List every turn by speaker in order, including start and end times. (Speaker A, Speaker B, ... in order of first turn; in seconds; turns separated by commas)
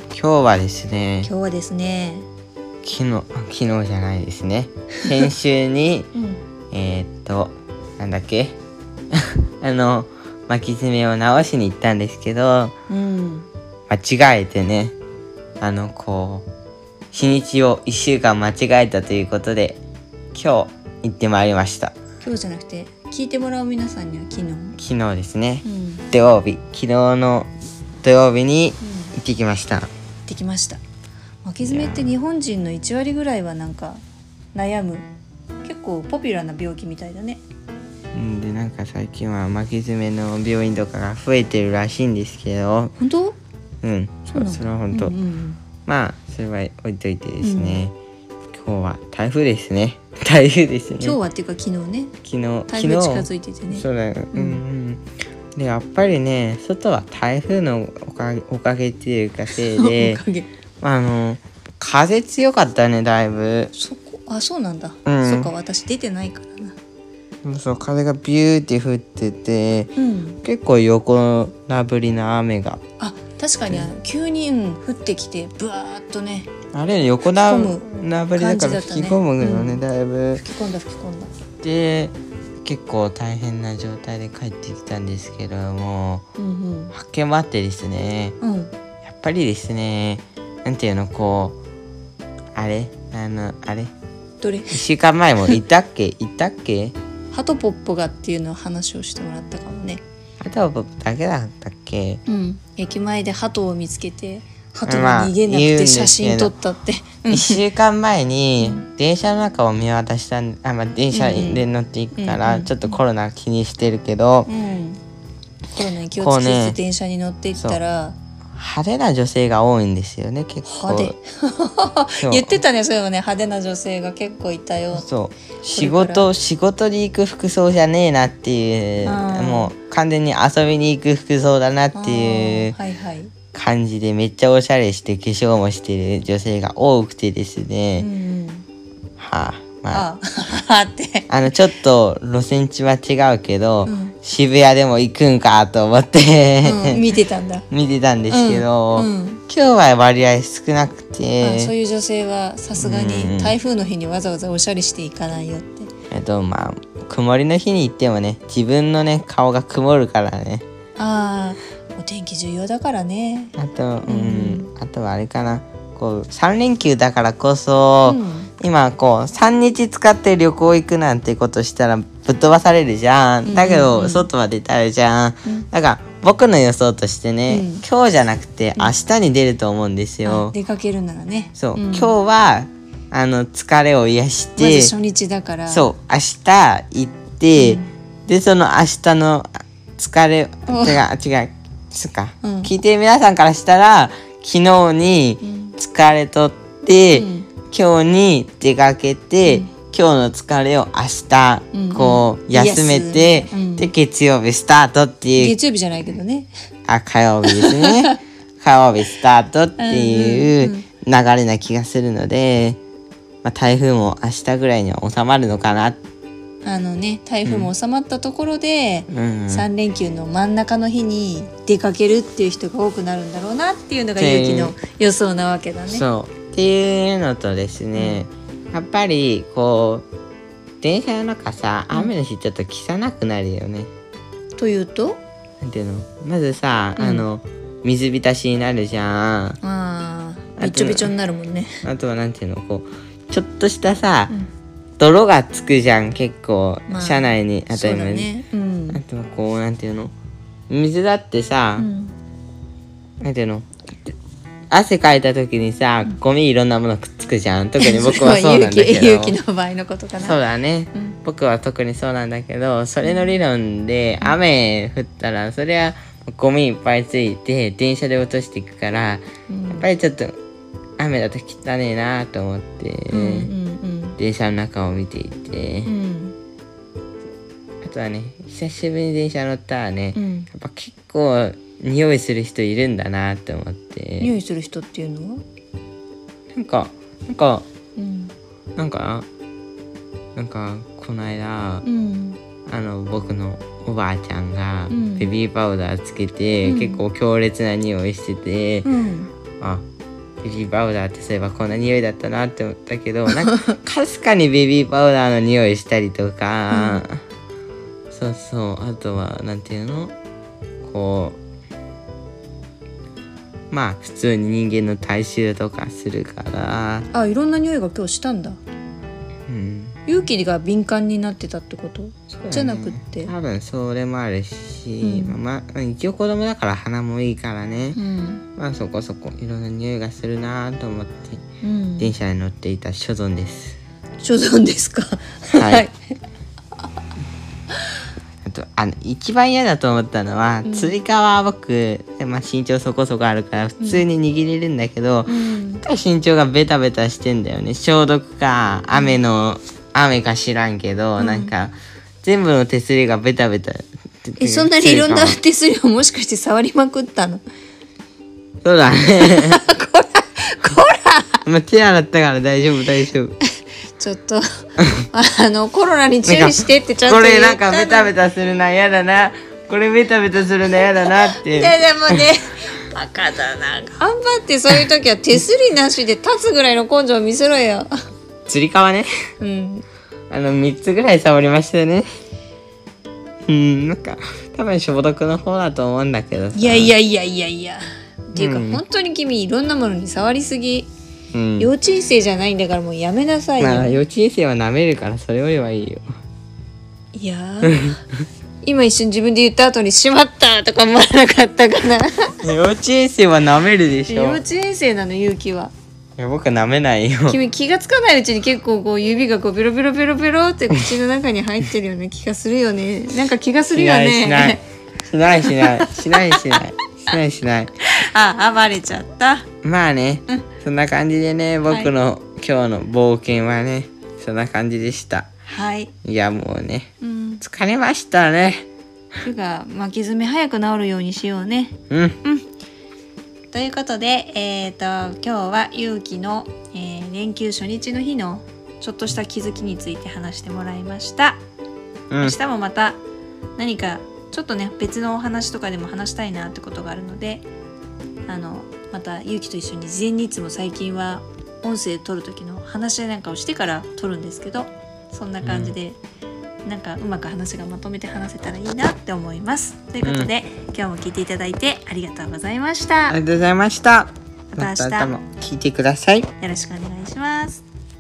Speaker A: 0.1-1.3, Speaker B: 1.2-2.3, Speaker A: 2.8-6.1, Speaker B: 6.1-6.4, Speaker A: 6.7-8.6, Speaker A: 9.1-12.7, Speaker B: 12.9-13.5, Speaker A: 13.9-14.9, Speaker A: 15.6-16.5, Speaker A: 17.1-19.8, Speaker A: 20.3-21.9, Speaker B: 22.2-24.8, Speaker A: 24.8-27.5, Speaker B: 25.6-26.1, Speaker A: 28.0-29.9, Speaker B: 28.8-29.1, Speaker B: 30.3-30.8, Speaker B: 31.4-34.0, Speaker A: 31.6-32.1, Speaker B: 34.5-35.1, Speaker B: 35.6-37.4, Speaker A: 38.1-42.9, Speaker B: 43.0-43.4, Speaker A: 43.8-45.1, Speaker B: 44.3-45.6, Speaker A: 45.9-47.9, Speaker B: 47.4-47.8, Speaker A: 48.5-51.2, Speaker B: 51.0-52.1, Speaker A: 52.2-55.0, Speaker B: 52.7-54.6, Speaker A: 55.6-60.2, Speaker B: 59.5-60.5, Speaker A: 60.8-63.7, Speaker B: 63.7-66.8, Speaker A: 65.1-65.5, Speaker A: 67.4-72.8, Speaker B: 70.0-70.4, Speaker B: 73.0-76.5, Speaker A: 73.7-73.9, Speaker A: 76.7-80.4, Speaker B: 77.4-79.8, Speaker B: 80.4-81.3, Speaker A: 81.6-86.2, Speaker B: 86.4-86.9, Speaker A: 86.9-88.4, Speaker B: 88.4-88.7, Speaker A: 89.0-91.6, Speaker A: 92.5-93.9, Speaker B: 94.4-94.8, Speaker A: 94.7-97.0, Speaker B: 97.3-100.0, Speaker A: 100.4-102.2, Speaker B: 102.3-107.6, Speaker A: 104.9-106.5, Speaker A: 107.3-114.5, Speaker B: 111.1-111.6, Speaker B: 112.2-112.9, Speaker B: 114.5-115.0, Speaker B: 115.7-118.2, Speaker A: 116.2-116.8, Speaker A: 117.5-117.8, Speaker A: 118.6-121.1, Speaker B: 120.6-125.1, Speaker A: 122.2-122.6, Speaker A: 125.0-132.8, Speaker B: 125.7-126.3, Speaker B: 129.1-129.7, Speaker B: 131.9-133.3, Speaker A: 133.5-138.1, Speaker B: 138.0-138.7, Speaker A: 139.2-140.1, Speaker B: 139.9-141.3, Speaker A: 141.3-147.1, Speaker B: 143.9-144.2, Speaker B: 146.6-147.7, Speaker A: 147.7-151.7, Speaker B: 148.3-149.4, Speaker B: 151.4-155.9, Speaker A: 152.8-153.6, Speaker A: 156.1-160.6, Speaker B: 161.0-163.5, Speaker A: 163.6-180.6, Speaker B: 164.1-164.7, Speaker B: 168.1-168.5, Speaker B: 173.5-174.3, Speaker B: 177.5-177.8, Speaker B: 180.2-182.2, Speaker A: 181.6-184.9, Speaker B: 184.6-185.9, Speaker A: 185.7-205.6, Speaker B: 187.6-187.9, Speaker B: 190.7-191.0, Speaker B: 192.4-192.7, Speaker B: 195.4-195.8, Speaker B: 197.1-197.5, Speaker B: 201.7-203.9, Speaker B: 205.4-206.5, Speaker A: 206.9-212.8, Speaker B: 207.5-208.2, Speaker B: 209.8-210.8, Speaker A: 213.4-216.0, Speaker B: 216.6-226.0, Speaker A: 217.4-217.7, Speaker A: 219.1-219.7, Speaker A: 224.2-224.8, Speaker A: 225.9-230.1, Speaker B: 227.9-228.2, Speaker A: 230.8-233.9, Speaker B: 234.6-235.2, Speaker A: 235.6-239.6, Speaker B: 237.0-237.3, Speaker B: 239.6-241.8, Speaker A: 240.6-241.1, Speaker A: 241.8-244.3, Speaker A: 245.0-248.3, Speaker B: 246.9-249.0, Speaker A: 248.9-250.1, Speaker A: 250.7-251.9, Speaker B: 251.8-252.1, Speaker A: 253.2-253.7, Speaker A: 254.7-259.4, Speaker B: 257.8-260.4, Speaker A: 260.2-270.4, Speaker B: 269.5-269.9, Speaker A: 271.0-273.5, Speaker B: 273.1-274.2, Speaker A: 274.2-275.9, Speaker B: 275.9-276.4, Speaker A: 277.8-284.3, Speaker B: 280.1-280.5, Speaker B: 284.2-285.4, Speaker A: 286.5-287.7, Speaker B: 288.0-288.3, Speaker A: 288.8-289.3, Speaker A: 290.4-291.9, Speaker B: 291.8-292.4, Speaker A: 292.7-298.9, Speaker B: 294.9-295.3, Speaker B: 296.6-297.0, Speaker B: 298.8-299.3, Speaker A: 300.4-307.2, Speaker B: 303.4-303.7, Speaker B: 306.7-307.0, Speaker A: 308.1-310.1, Speaker A: 310.8-311.4, Speaker A: 313.7-317.1, Speaker B: 317.1-318.6, Speaker A: 319.5-320.0, Speaker B: 320.1-323.3, Speaker A: 322.5-328.0, Speaker B: 325.0-325.4, Speaker B: 327.9-328.4, Speaker A: 328.6-331.4, Speaker B: 331.6-332.1, Speaker A: 332.0-333.8, Speaker B: 334.2-335.9, Speaker A: 335.5-335.9, Speaker A: 338.4-355.4, Speaker B: 340.6-341.0, Speaker B: 345.3-345.8, Speaker B: 348.9-349.2, Speaker B: 351.2-351.5, Speaker B: 354.4-357.4, Speaker A: 358.6-359.6, Speaker B: 359.2-361.4, Speaker A: 361.5-363.4, Speaker B: 364.0-364.4, Speaker B: 365.1-368.1, Speaker A: 366.3-372.3, Speaker B: 371.1-377.9, Speaker A: 378.5-379.1, Speaker B: 379.4-379.8, Speaker A: 380.3-382.1, Speaker A: 383.5-386.9, Speaker B: 386.6-390.9, Speaker A: 388.4-388.8, Speaker A: 391.3-391.7, Speaker B: 391.6-394.0, Speaker A: 393.6-396.1, Speaker B: 397.1-397.9, Speaker A: 397.7-398.0, Speaker B: 398.6-402.4, Speaker A: 402.4-404.4, Speaker B: 404.1-405.7, Speaker A: 406.2-407.4, Speaker B: 407.3-414.6, Speaker A: 413.7-417.7, Speaker B: 415.5-416.6, Speaker B: 417.8-419.5, Speaker A: 419.6-425.3, Speaker B: 425.5-425.9, Speaker A: 426.0-428.7, Speaker B: 427.0-427.4, Speaker B: 429.2-432.4, Speaker A: 431.9-432.2, Speaker B: 433.5-441.4, Speaker A: 442.1-442.4, Speaker B: 442.2-443.0, Speaker B: 443.6-447.5, Speaker B: 448.3-456.0, Speaker A: 455.4-455.8, Speaker B: 456.6-463.2, Speaker A: 460.0-460.3, Speaker A: 463.1-466.3, Speaker B: 464.5-465.2, Speaker B: 466.4-467.6